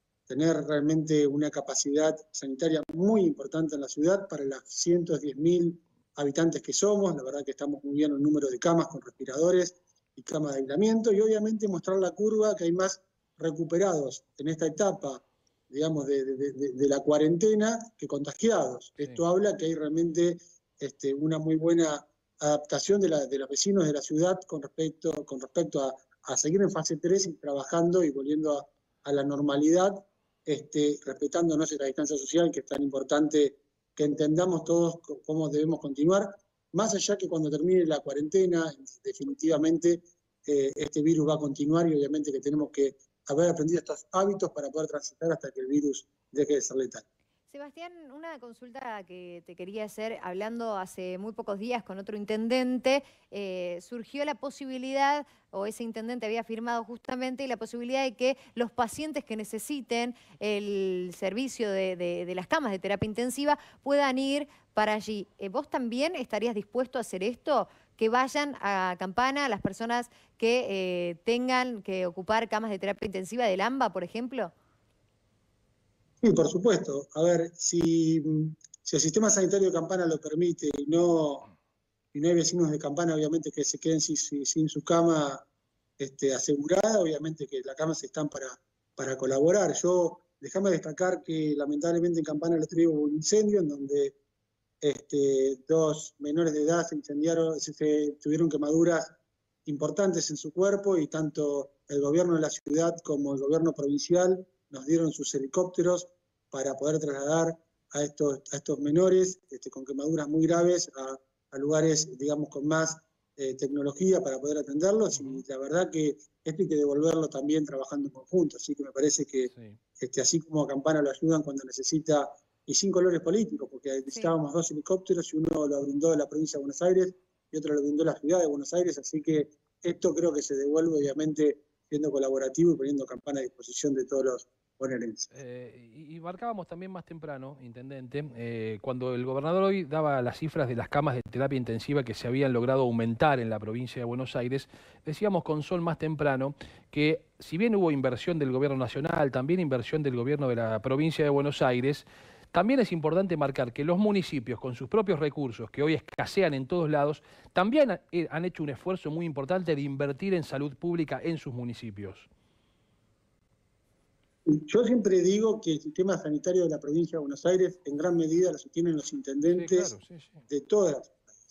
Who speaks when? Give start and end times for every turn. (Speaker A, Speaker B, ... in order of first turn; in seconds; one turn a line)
Speaker A: 0.3-47.0
Speaker B: 47.5-74.5
Speaker A: 76.2-81.5
Speaker A: 82.1-85.4
Speaker A: 86.0-94.1
Speaker A: 94.8-99.1
Speaker A: 99.7-135.3
Speaker C: 115.1-115.4
Speaker C: 119.5-119.8
Speaker B: 124.1-124.3
Speaker C: 135.3-162.3
Speaker A: 164.4-169.9
Speaker C: 169.5-170.4
Speaker A: 170.5-171.2